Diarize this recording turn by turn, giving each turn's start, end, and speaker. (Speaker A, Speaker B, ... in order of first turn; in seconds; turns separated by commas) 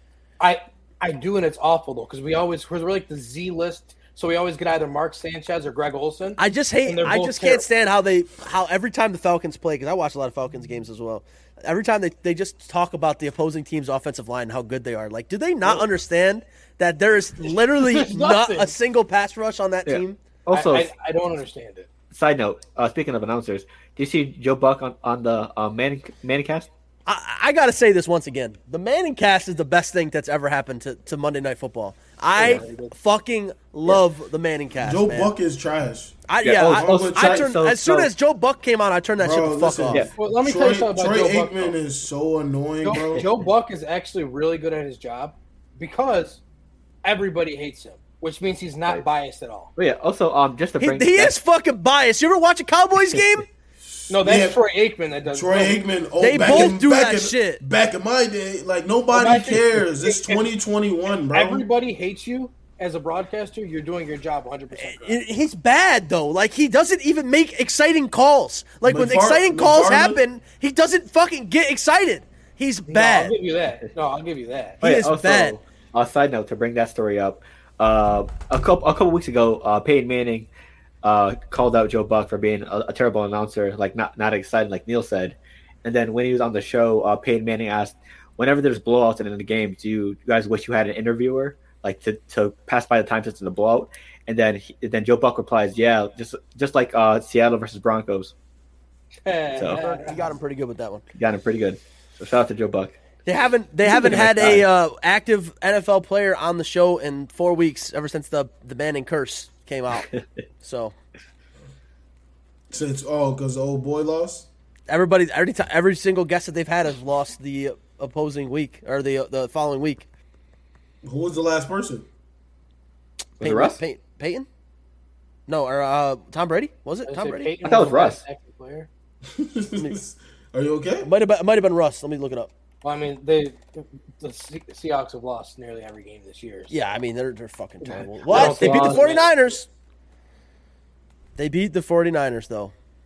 Speaker A: 0.4-7.6, Speaker B: 6.4-20.2, Speaker A: 17.4-18.7, Speaker C: 19.9-20.9, Speaker A: 20.5-21.9, Speaker C: 22.1-26.7, Speaker B: 27.1-35.3, Speaker A: 32.3-32.9, Speaker C: 32.4-32.6, Speaker D: 34.8-37.5, Speaker B: 36.3-40.0, Speaker C: 36.4-38.1, Speaker D: 39.2-43.2, Speaker A: 40.1-41.7, Speaker A: 42.8-46.4, Speaker C: 42.9-43.3, Speaker A: 47.0-49.7, Speaker C: 49.8-51.3, Speaker B: 50.8-53.5, Speaker D: 53.8-54.6, Speaker A: 54.1-55.8, Speaker D: 55.3-61.6, Speaker B: 56.2-57.6, Speaker A: 59.1-60.5, Speaker A: 61.3-65.2, Speaker B: 64.7-73.3, Speaker D: 68.8-70.2, Speaker A: 72.9-74.8, Speaker C: 74.8-80.5, Speaker B: 74.8-75.6, Speaker C: 81.0-98.3, Speaker A: 99.2-100.3, Speaker C: 99.5-99.8, Speaker B: 99.7-101.0, Speaker C: 101.1-103.0, Speaker B: 103.2-110.1, Speaker C: 103.8-104.7, Speaker B: 110.6-110.9, Speaker D: 112.7-114.5, Speaker B: 114.9-120.1, Speaker D: 121.0-122.0, Speaker C: 123.4-123.8, Speaker B: 123.4-124.5, Speaker B: 125.5-127.5, Speaker A: 127.1-128.9, Speaker C: 127.6-128.2, Speaker D: 129.2-131.1, Speaker B: 131.0-132.5, Speaker A: 132.8-136.7, Speaker B: 136.7-139.7, Speaker A: 137.8-139.4, Speaker C: 137.9-139.1, Speaker B: 141.3-142.7